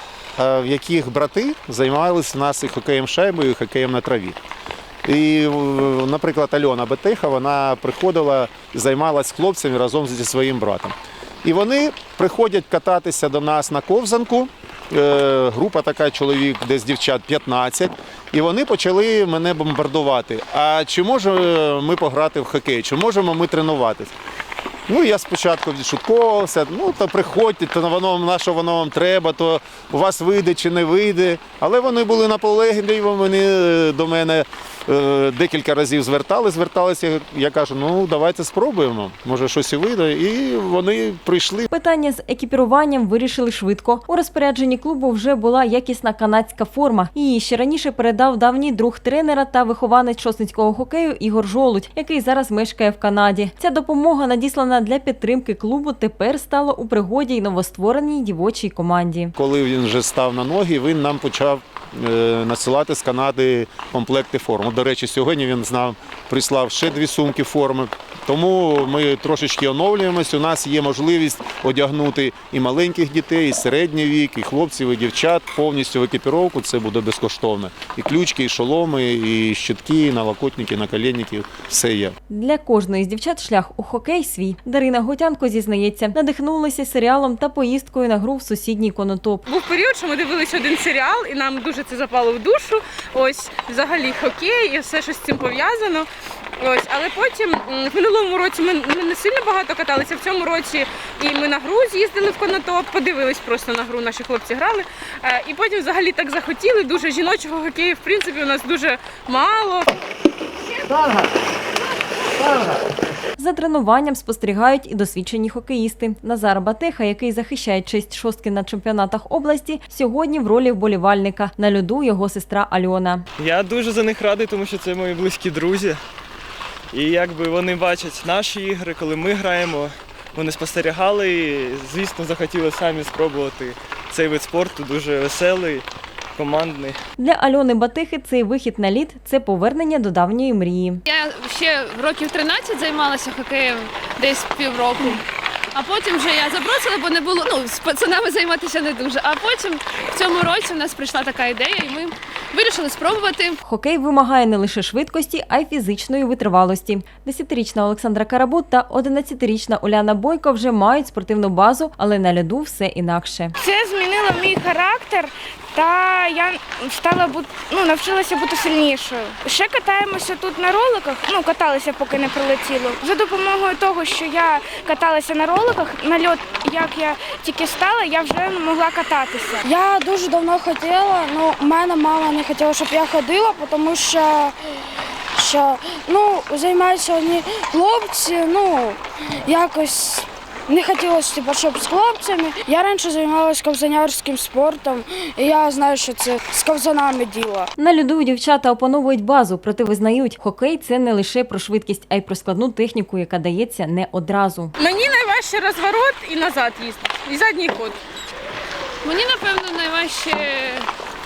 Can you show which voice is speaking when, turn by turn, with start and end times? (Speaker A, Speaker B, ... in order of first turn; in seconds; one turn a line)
Speaker A: 0.3-4.4
Speaker A: 5.0-24.1
Speaker A: 24.9-41.7
Speaker B: 41.7-59.3
Speaker A: 59.4-82.2
Speaker B: 82.3-89.5
Speaker C: 89.5-96.1
Speaker C: 96.6-109.9
Speaker B: 113.4-123.2
Speaker D: 123.4-126.0
Speaker D: 126.9-135.8
Speaker D: 136.3-137.0
Speaker B: 137.2-141.0
Speaker E: 141.1-153.6
Speaker B: 153.6-163.5
Speaker F: 163.6-179.6
Speaker G: 179.6-197.7
Speaker B: 197.8-204.7
Speaker C: 204.8-208.0
Speaker E: 209.0-210.9